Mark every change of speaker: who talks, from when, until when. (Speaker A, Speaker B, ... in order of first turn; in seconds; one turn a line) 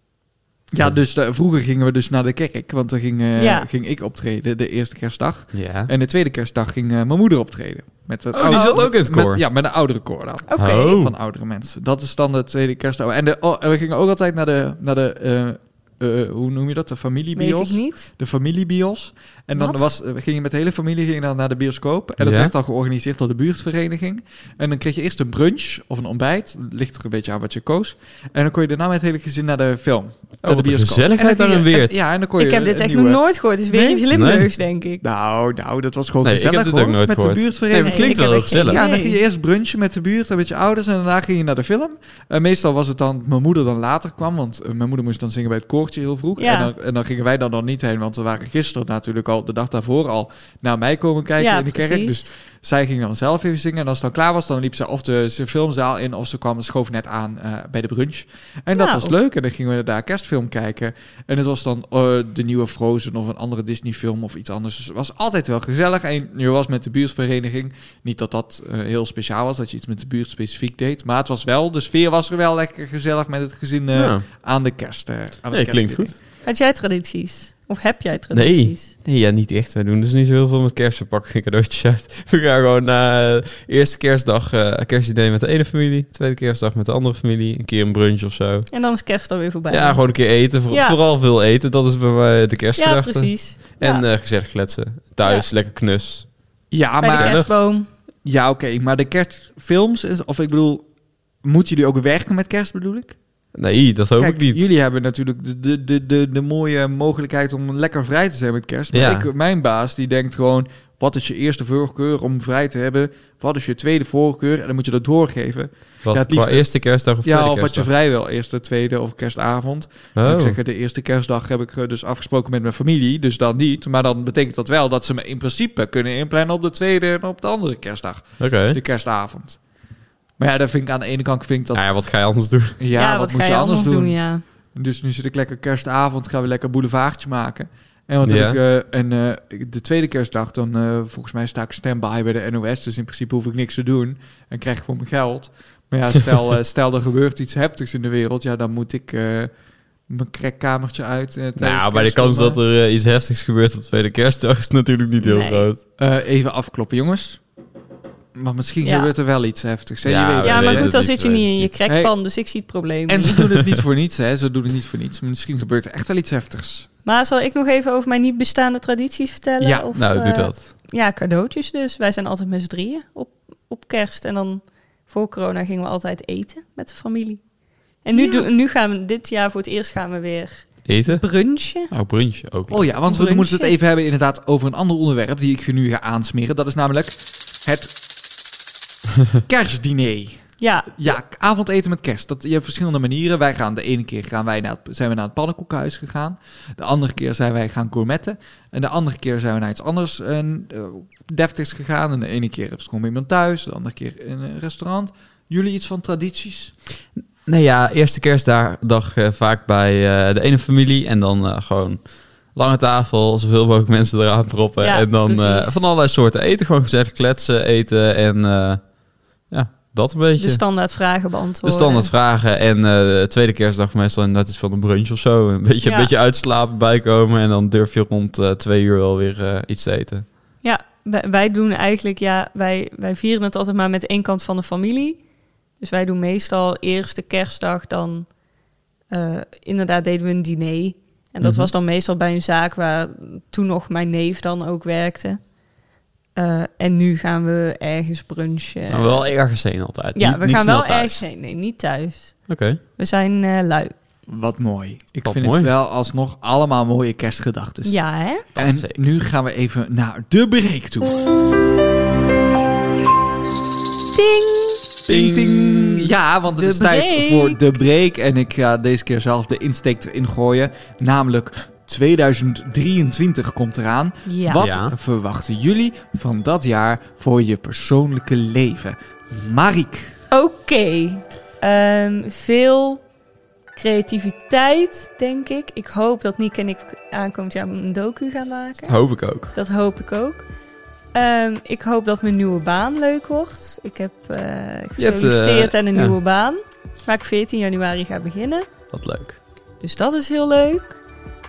Speaker A: 0.7-33.2
Speaker B: 3.4-3.7
Speaker C: 5.5-5.9
Speaker C: 8.3-9.4
Speaker B: 8.5-8.8
Speaker B: 10.5-11.0
Speaker C: 10.6-11.1
Speaker B: 17.4-18.1
Speaker B: 19.6-19.9
Speaker C: 22.2-22.5
Speaker C: 30.4-32.0
Speaker B: 32.4-35.0
Speaker A: 33.7-34.0
Speaker C: 34.1-34.5
Speaker A: 35.0-76.2
Speaker C: 36.2-38.8
Speaker B: 37.8-39.2
Speaker B: 46.4-46.7
Speaker B: 51.4-52.2
Speaker B: 58.7-59.1
Speaker C: 73.9-74.2
Speaker C: 75.5-76.1
Speaker B: 76.4-78.9
Speaker C: 78.3-88.7
Speaker B: 88.7-91.0
Speaker C: 89.7-96.3
Speaker B: 92.8-94.0
Speaker B: 95.2-95.5
Speaker A: 96.7-97.4
Speaker B: 97.0-97.9
Speaker C: 97.1-97.5
Speaker A: 98.2-100.9
Speaker A: 101.4-103.2
Speaker C: 103.5-104.6
Speaker A: 104.2-116.7
Speaker C: 108.9-109.3
Speaker C: 116.0-117.9
Speaker A: 117.2-129.6
Speaker C: 120.1-120.6
Speaker C: 128.4-128.8
Speaker A: 130.4-132.0
Speaker C: 131.7-132.8
Speaker A: 132.8-134.2
Speaker B: 132.9-134.4
Speaker A: 134.7-149.5
Speaker C: 138.2-138.6
Speaker A: 150.1-152.6
Speaker C: 151.6-155.8
Speaker B: 155.2-155.7
Speaker A: 156.0-157.4
Speaker A: 158.3-160.9
Speaker B: 158.8-159.1
Speaker C: 160.0-161.7
Speaker B: 160.4-163.5
Speaker A: 161.9-162.1
Speaker A: 163.1-166.9
Speaker B: 167.0-177.4
Speaker A: 169.6-169.9
Speaker C: 169.9-170.7
Speaker B: 178.0-181.9
Speaker A: 178.1-178.5
Speaker C: 180.9-181.2
Speaker C: 181.9-182.8
Speaker A: 182.7-188.0
Speaker B: 183.1-183.7
Speaker A: 189.4-190.4
Speaker B: 190.6-190.9
Speaker A: 190.9-206.7
Speaker C: 207.4-218.9
Speaker B: 214.8-215.8
Speaker C: 219.4-220.7
Speaker B: 220.4-222.1
Speaker C: 221.6-230.3
Speaker B: 225.8-226.1
Speaker B: 230.6-235.2
Speaker B: 235.8-238.3
Speaker B: 239.1-245.4
Speaker C: 241.4-241.7
Speaker B: 246.3-249.3
Speaker C: 248.9-251.2
Speaker B: 250.1-253.9
Speaker C: 252.5-252.8
Speaker A: 254.3-258.0
Speaker C: 255.2-255.7
Speaker B: 257.8-258.4
Speaker A: 258.5-261.1
Speaker C: 258.6-259.0
Speaker B: 264.1-264.9
Speaker C: 265.1-266.1
Speaker A: 265.1-280.1
Speaker B: 266.6-267.6
Speaker B: 274.2-274.6
Speaker C: 274.6-274.9
Speaker B: 280.3-283.0
Speaker B: 283.8-289.0
Speaker C: 288.9-289.5
Speaker B: 289.5-290.4
Speaker B: 291.1-298.7
Speaker C: 295.0-296.1
Speaker C: 298.9-299.4
Speaker B: 299.8-301.0